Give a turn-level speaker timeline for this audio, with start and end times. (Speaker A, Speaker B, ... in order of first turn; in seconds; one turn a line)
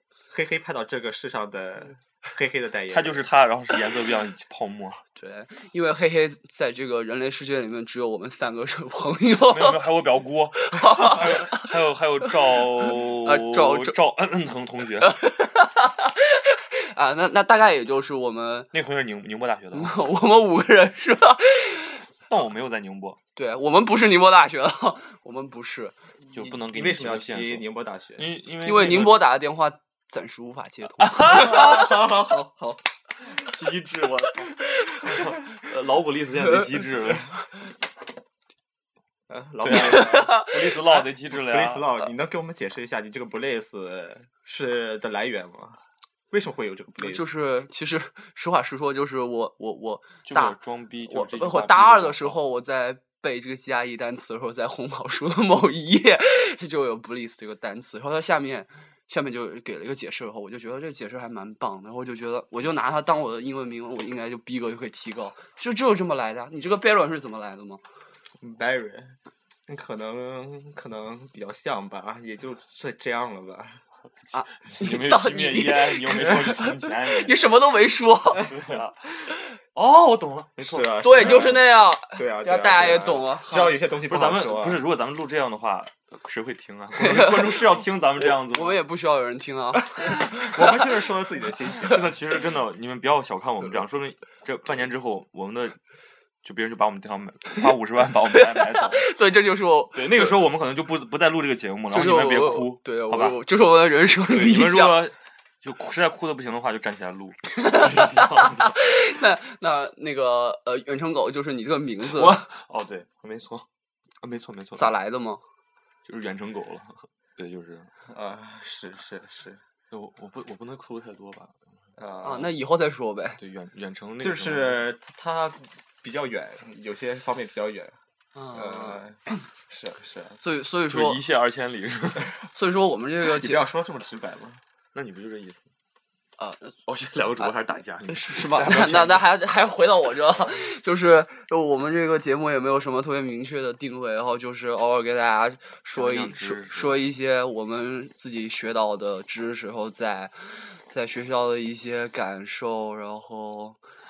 Speaker A: 0.3-3.3
Speaker B: 2.9-5.0
Speaker C: 5.2-9.8
Speaker B: 9.4-15.2
Speaker C: 10.6-11.7
Speaker C: 12.8-13.9
Speaker C: 15.0-18.7
Speaker B: 18.7-20.0
Speaker C: 19.7-22.0
Speaker B: 22.3-23.2
Speaker C: 23.4-25.9
Speaker B: 26.3-27.6
Speaker A: 26.3-28.3
Speaker B: 28.2-29.3
Speaker C: 28.6-31.9
Speaker B: 31.0-31.9
Speaker A: 31.2-32.8
Speaker B: 33.3-37.3
Speaker A: 39.3-45.8
Speaker B: 39.6-42.1
Speaker C: 39.7-40.6
Speaker A: 46.3-47.3
Speaker C: 47.0-67.8
Speaker B: 50.2-52.4
Speaker A: 68.4-69.2
Speaker A: 69.7-73.8
Speaker B: 74.3-77.5
Speaker C: 74.3-78.5
Speaker B: 78.4-79.0
Speaker B: 79.7-81.5
Speaker A: 80.6-84.8
Speaker C: 81.0-83.8
Speaker B: 84.1-88.8
Speaker C: 86.9-87.7
Speaker C: 88.4-90.6
Speaker A: 90.0-92.2
Speaker B: 91.8-95.8
Speaker B: 96.4-99.1
Speaker C: 98.3-100.4
Speaker B: 99.9-103.4
Speaker C: 101.9-105.1
Speaker B: 104.3-108.8
Speaker C: 107.6-112.5
Speaker B: 112.1-113.6
Speaker B: 114.2-114.9
Speaker C: 114.8-115.4
Speaker B: 116.0-117.9
Speaker A: 118.1-119.6
Speaker B: 119.9-121.5
Speaker A: 122.0-122.5
Speaker C: 122.2-123.4
Speaker B: 123.4-124.9
Speaker A: 124.2-128.0
Speaker C: 128.3-129.0
Speaker A: 128.5-129.2
Speaker A: 129.7-130.4
Speaker C: 130.4-131.2
Speaker B: 130.9-132.3
Speaker C: 132.5-133.6
Speaker A: 133.2-134.6
Speaker B: 134.9-135.7
Speaker C: 136.4-136.7
Speaker B: 136.9-139.2
Speaker C: 138.0-153.8
Speaker B: 145.9-147.1